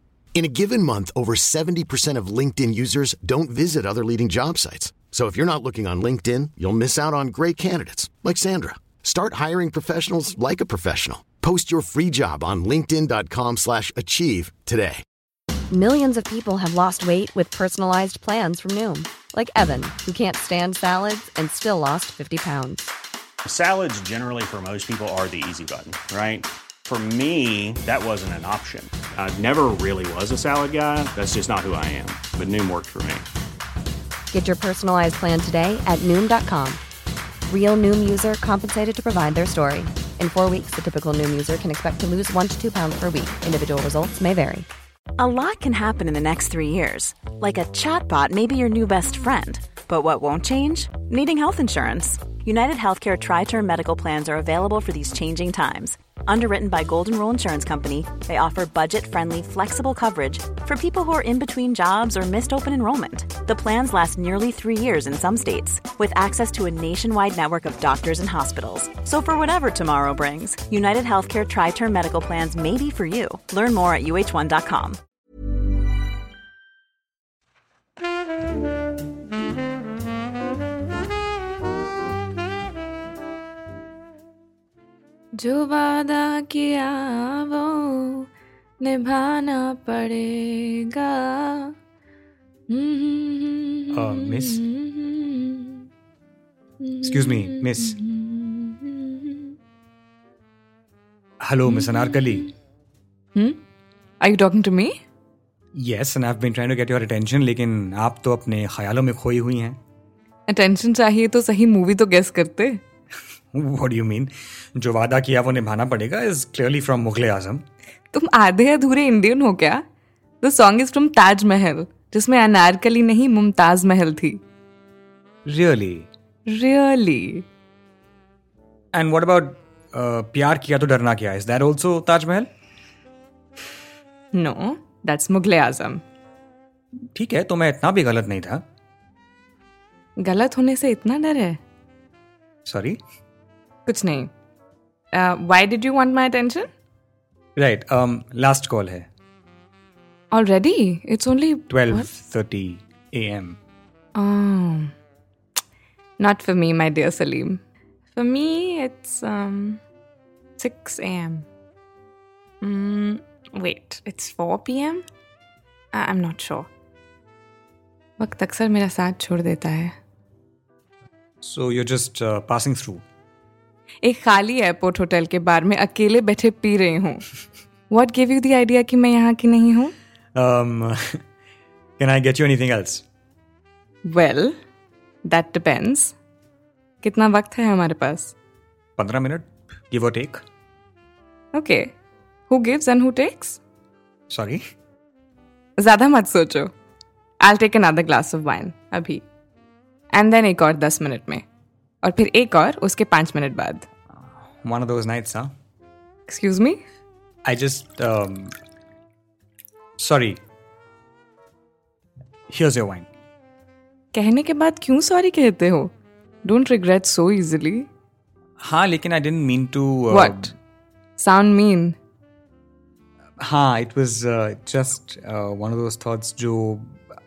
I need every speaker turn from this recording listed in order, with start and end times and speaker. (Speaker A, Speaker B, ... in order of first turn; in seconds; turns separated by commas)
Speaker A: 0.3-15.0, Speaker B: 15.7-22.9, Speaker C: 23.5-33.2, Speaker B: 34.3-36.8, Speaker B: 37.5-44.6, Speaker D: 45.2-75.0, Speaker E: 85.3-88.3, Speaker E: 88.8-91.7, Speaker E: 92.7-95.8, Speaker F: 93.9-94.6, Speaker E: 96.8-99.5, Speaker F: 97.0-98.0, Speaker F: 101.4-102.5, Speaker E: 101.7-102.5, Speaker E: 104.2-104.9, Speaker F: 105.7-109.8, Speaker E: 110.5-112.8, Speaker F: 113.5-117.6, Speaker E: 118.1-119.8, Speaker E: 120.4-124.4, Speaker F: 125.5-126.1, Speaker E: 126.5-127.5, Speaker F: 128.9-132.5, Speaker E: 134.3-136.0, Speaker F: 137.1-138.6, Speaker E: 140.2-141.6, Speaker F: 142.7-143.0, Speaker E: 143.8-144.3, Speaker E: 145.1-146.7, Speaker F: 147.6-149.1, Speaker E: 150.3-152.1, Speaker F: 151.7-153.6, Speaker E: 154.1-154.9, Speaker E: 156.2-157.6, Speaker E: 158.1-159.8, Speaker E: 160.6-161.4, Speaker E: 162.6-165.0, Speaker E: 165.9-166.7, Speaker E: 168.2-169.9, Speaker F: 171.4-173.0, Speaker E: 174.0-177.2, Speaker E: 177.9-179.9, Speaker F: 180.3-181.2, Speaker F: 182.0-183.0, Speaker E: 184.0-184.6, Speaker E: 185.2-186.1, Speaker E: 187.0-188.3, Speaker F: 189.0-190.4, Speaker E: 191.5-191.9, Speaker E: 192.5-193.6, Speaker F: 194.3-194.6, Speaker E: 195.8-196.7, Speaker E: 197.4-199.2, Speaker E: 200.1-201.4, Speaker E: 202.0-203.8, Speaker F: 204.6-205.5, Speaker E: 206.3-206.8, Speaker F: 207.4-208.6, Speaker F: 210.0-210.4, Speaker F: 212.5-213.1, Speaker E: 214.1-215.9, Speaker E: 216.4-217.9, Speaker F: 218.6-220.5, Speaker E: 220.1-220.5, Speaker E: 221.2-222.0, Speaker F: 223.4-227.0